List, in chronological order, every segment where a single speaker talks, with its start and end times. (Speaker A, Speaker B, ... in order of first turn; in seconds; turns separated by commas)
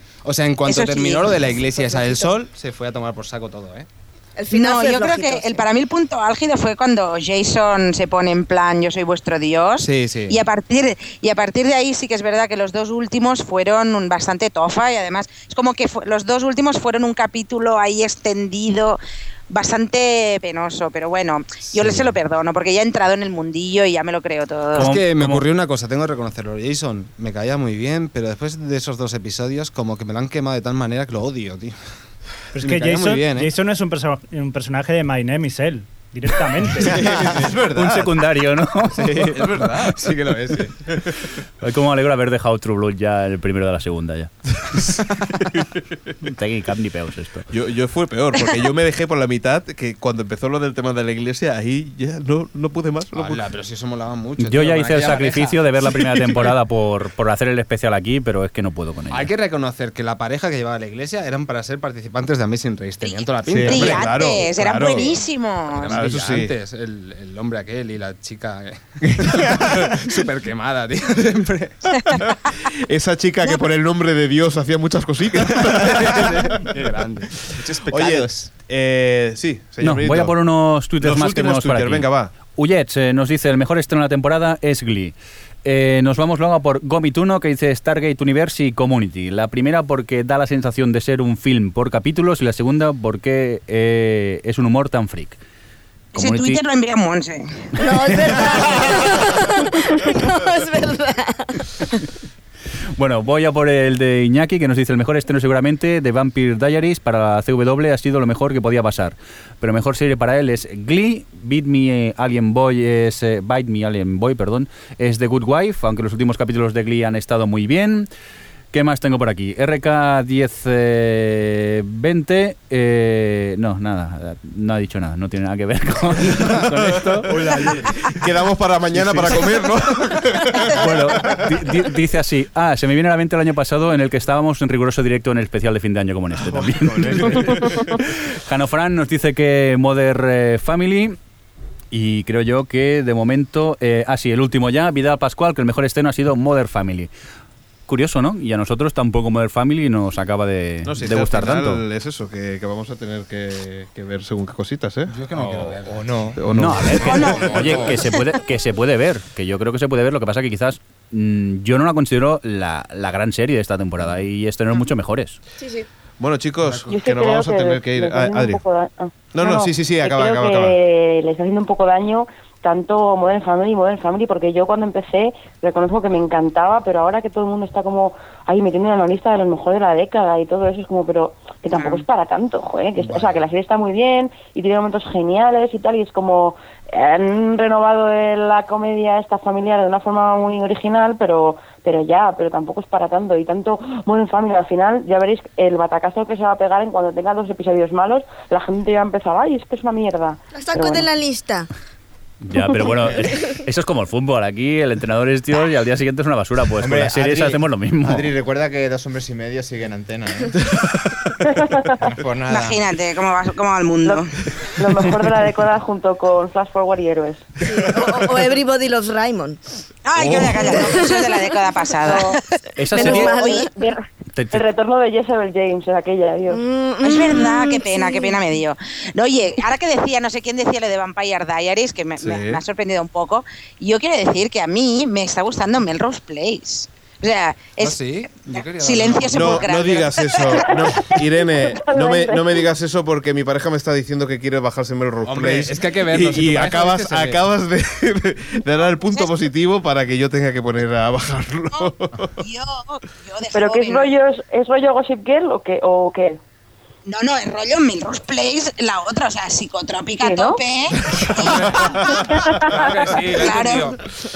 Speaker A: 0.2-3.9, Speaker B: 0.7-1.3, Speaker C: 1.6-2.2, Speaker C: 4.3-5.7, Speaker B: 4.5-24.9, Speaker A: 9.8-10.4, Speaker A: 21.8-22.1, Speaker D: 24.7-25.4, Speaker A: 24.7-31.8, Speaker E: 32.5-37.0, Speaker A: 32.6-33.5, Speaker A: 36.8-37.5, Speaker F: 36.8-38.2, Speaker D: 37.7-39.4, Speaker A: 39.0-40.7, Speaker F: 39.3-40.1, Speaker D: 41.6-44.9, Speaker F: 45.4-46.1, Speaker D: 46.2-47.5, Speaker F: 47.5-53.4, Speaker A: 53.1-56.2, Speaker D: 54.4-59.3, Speaker A: 59.1-65.2, Speaker B: 63.0-66.0, Speaker F: 63.5-65.2, Speaker A: 65.7-71.8, Speaker F: 65.9-66.5, Speaker F: 69.1-69.9, Speaker F: 72.2-76.6, Speaker A: 75.9-77.8, Speaker G: 77.8-78.5, Speaker F: 77.9-80.3, Speaker D: 79.8-95.4, Speaker F: 81.0-82.3, Speaker D: 96.1-96.6, Speaker B: 96.1-97.7, Speaker C: 97.8-102.0, Speaker D: 98.1-98.8, Speaker D: 103.0-118.1, Speaker D: 118.7-127.7, Speaker F: 126.5-131.5, Speaker D: 128.9-129.5, Speaker D: 130.8-141.2, Speaker G: 136.4-137.6, Speaker D: 141.9-147.1, Speaker D: 147.9-151.8, Speaker F: 150.8-155.8, Speaker A: 155.1-156.0, Speaker G: 155.8-156.4, Speaker F: 156.3-157.7, Speaker D: 156.5-165.4, Speaker B: 157.0-157.8, Speaker A: 157.1-157.8, Speaker C: 165.6-165.9, Speaker F: 166.2-168.6, Speaker H: 166.9-201.1, Speaker F: 169.3-170.8, Speaker B: 181.7-182.0, Speaker C: 200.5-201.7, Speaker D: 202.4-208.3, Speaker G: 206.8-210.6, Speaker F: 210.8-211.2, Speaker H: 211.4-212.0, Speaker G: 212.0-212.8, Speaker B: 212.5-214.3, Speaker H: 214.8-217.5, Speaker C: 217.6-219.6, Speaker B: 220.1-222.4, Speaker F: 220.2-220.5, Speaker C: 220.4-221.5, Speaker H: 222.1-222.3, Speaker D: 222.8-223.3, Speaker C: 222.9-223.7, Speaker H: 223.0-224.0, Speaker B: 223.1-223.7, Speaker D: 224.3-224.6, Speaker H: 224.5-226.6, Speaker C: 226.5-228.4, Speaker B: 227.0-241.0, Speaker F: 232.2-232.6, Speaker A: 237.8-239.8, Speaker F: 239.3-252.4, Speaker H: 240.4-242.7, Speaker A: 245.2-247.4, Speaker B: 252.4-254.1, Speaker H: 253.5-256.4, Speaker B: 257.1-262.6, Speaker H: 260.2-260.6, Speaker A: 261.4-262.0, Speaker H: 262.2-263.2, Speaker A: 262.7-264.0, Speaker B: 263.2-263.9